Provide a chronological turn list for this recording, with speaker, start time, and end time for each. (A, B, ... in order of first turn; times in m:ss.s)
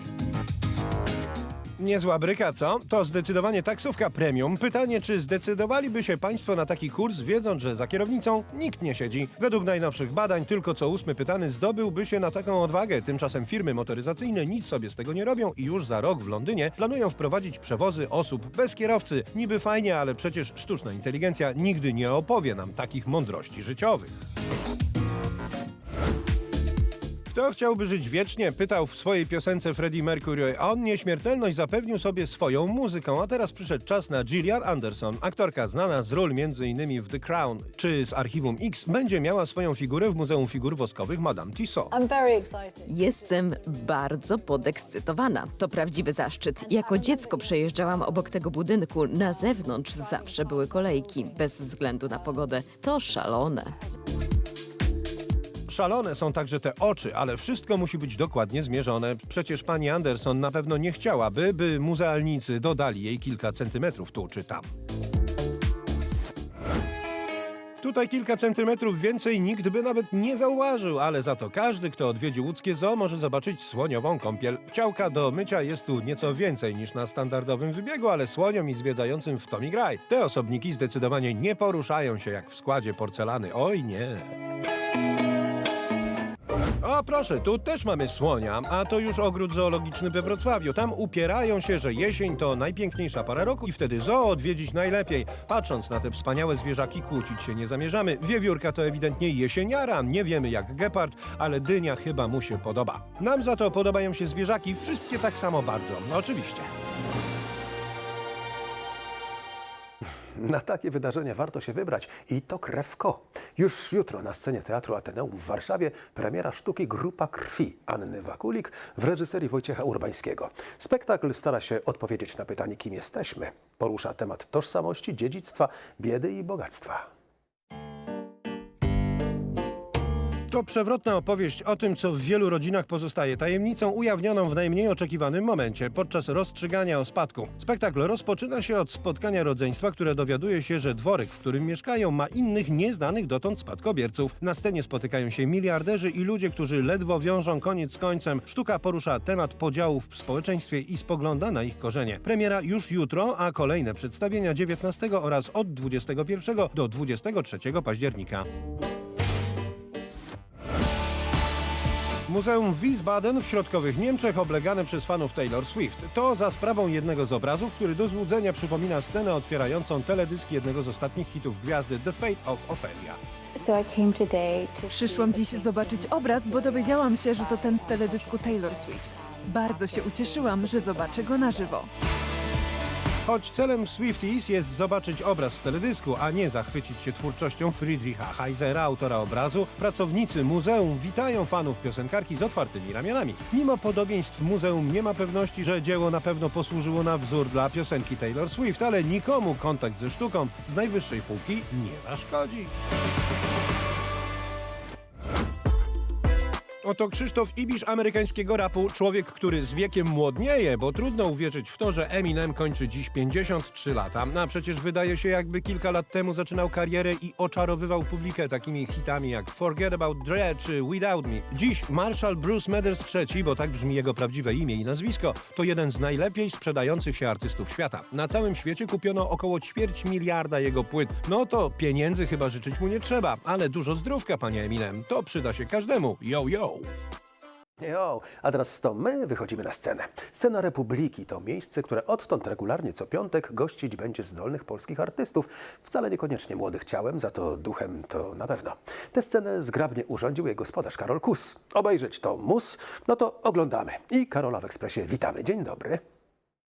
0:01.8-0:24.1 A
0:27.3-0:41.9 A
0:41.9-0:42.9 B
0:42.9-0:53.7 C
0:47.1-0:47.4 B
0:55.7-1:04.6 A
1:07.8-1:24.3 A
1:26.8-1:46.7 A
1:50.4-2:07.0 D
2:10.5-2:38.4 A
2:42.2-2:53.2 A
2:53.6-2:56.8 B
2:54.9-3:01.9 E
2:57.4-3:00.4 B
3:00.9-3:01.2 B
3:03.2-3:22.7 A
3:26.8-3:56.9 A
3:57.8-4:16.0 D